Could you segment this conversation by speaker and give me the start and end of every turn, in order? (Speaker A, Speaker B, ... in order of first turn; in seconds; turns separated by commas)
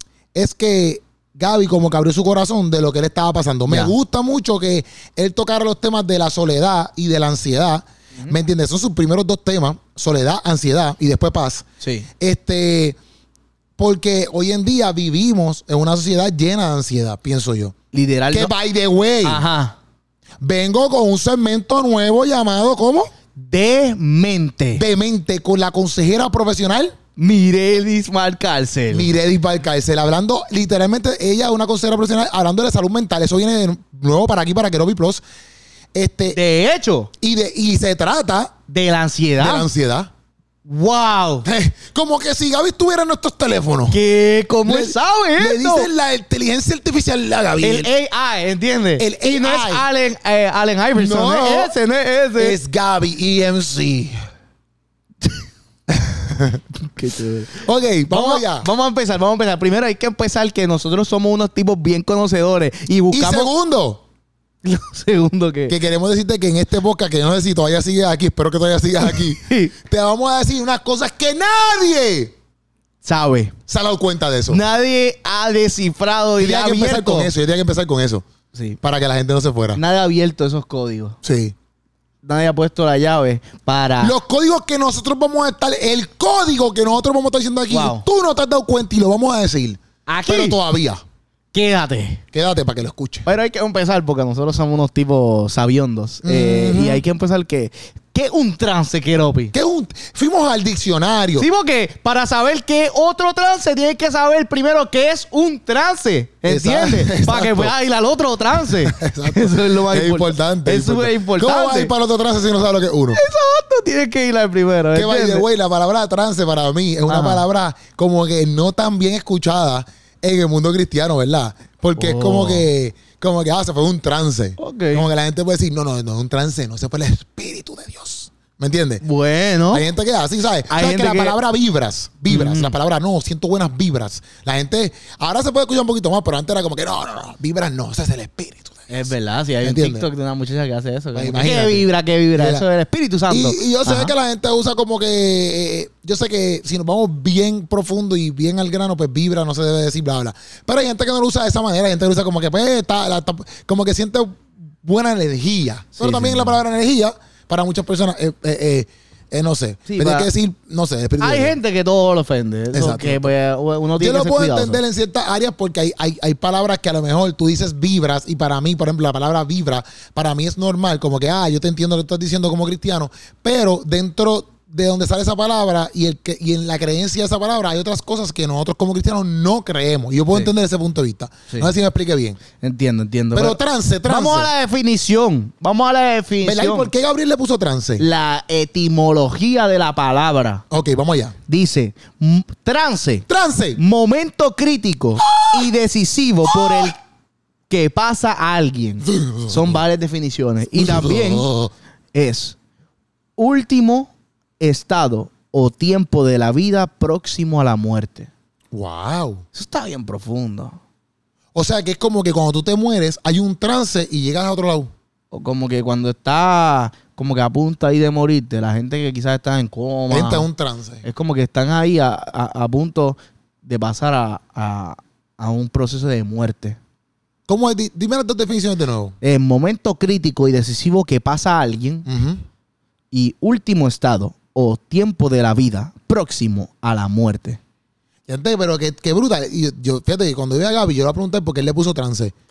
Speaker A: 0.3-11.7, Speaker B: 3.7-3.9, Speaker B: 11.8-12.1, Speaker A: 12.2-13.0, Speaker A: 13.8-17.8, Speaker B: 17.9-18.5, Speaker A: 18.3-19.4, Speaker B: 19.2-19.8, Speaker A: 20.4-23.1, Speaker B: 23.4-24.8, Speaker A: 24.8-27.0, Speaker B: 27.2-29.1, Speaker A: 28.9-35.2, Speaker A: 35.9-36.4, Speaker B: 36.3-37.1, Speaker A: 37.2-38.6, Speaker B: 38.7-39.7, Speaker A: 39.4-40.1, Speaker B: 40.7-41.5, Speaker A: 41.5-44.0, Speaker B: 43.9-45.9, Speaker A: 44.6-47.9, Speaker B: 47.6-52.6, Speaker A: 49.0-49.9, Speaker A: 51.0-51.8, Speaker A: 52.4-54.2, Speaker A: 55.9-56.6, Speaker B: 56.8-63.5, Speaker A: 57.5-58.7, Speaker A: 63.1-64.0, Speaker B: 64.6-65.8, Speaker A: 65.7-72.3, Speaker B: 69.0-69.7, Speaker B: 73.0-73.5, Speaker A: 73.7-74.6, Speaker B: 74.5-77.3, Speaker A: 76.4-78.3, Speaker B: 78.5-78.8, Speaker A: 78.8-79.8, Speaker B: 79.8-81.2, Speaker A: 81.2-81.5, Speaker B: 82.2-84.2, Speaker A: 84.0-91.0, Speaker B: 87.7-88.0, Speaker B: 90.1-90.6, Speaker B: 91.5-92.2, Speaker A: 92.3-93.3, Speaker B: 93.3-99.5, Speaker A: 96.2-97.0, Speaker A: 99.5-101.5, Speaker B: 101.4-111.9, Speaker A: 106.5-107.7, Speaker A: 108.6-113.2, Speaker B: 113.1-115.5, Speaker A: 114.9-129.0, Speaker B: 117.1-117.4, Speaker B: 122.0-122.7, Speaker B: 124.6-125.1, Speaker B: 129.0-129.9, Speaker A: 129.7-139.1, Speaker B: 130.7-131.4, Speaker B: 132.3-132.8, Speaker B: 138.9-144.1, Speaker A: 139.6-140.1, Speaker A: 141.2-142.7, Speaker A: 143.3-161.6, Speaker B: 156.0-156.6, Speaker B: 159.9-160.3, Speaker B: 161.2-164.8, Speaker A: 162.7-163.3, Speaker A: 164.0-182.4, Speaker B: 182.6-186.9, Speaker A: 183.3-184.5, Speaker A: 186.4-188.1, Speaker B: 188.0-190.6, Speaker A: 190.7-191.4, Speaker B: 191.5-193.2, Speaker A: 193.3-193.8, Speaker B: 193.8-197.0, Speaker A: 195.3-195.6, Speaker A: 196.5-196.9, Speaker B: 197.7-201.5, Speaker A: 199.0-199.8, Speaker A: 200.8-201.7, Speaker B: 202.1-202.6, Speaker B: 203.4-208.3, Speaker A: 208.7-209.4, Speaker B: 209.5-210.8, Speaker A: 211.6-214.9, Speaker B: 215.3-220.5, Speaker A: 220.1-221.1, Speaker B: 221.0-226.8, Speaker A: 227.5-229.2, Speaker B: 229.2-232.1, Speaker A: 232.1-232.4, Speaker B: 233.1-237.6, Speaker A: 238.3-242.3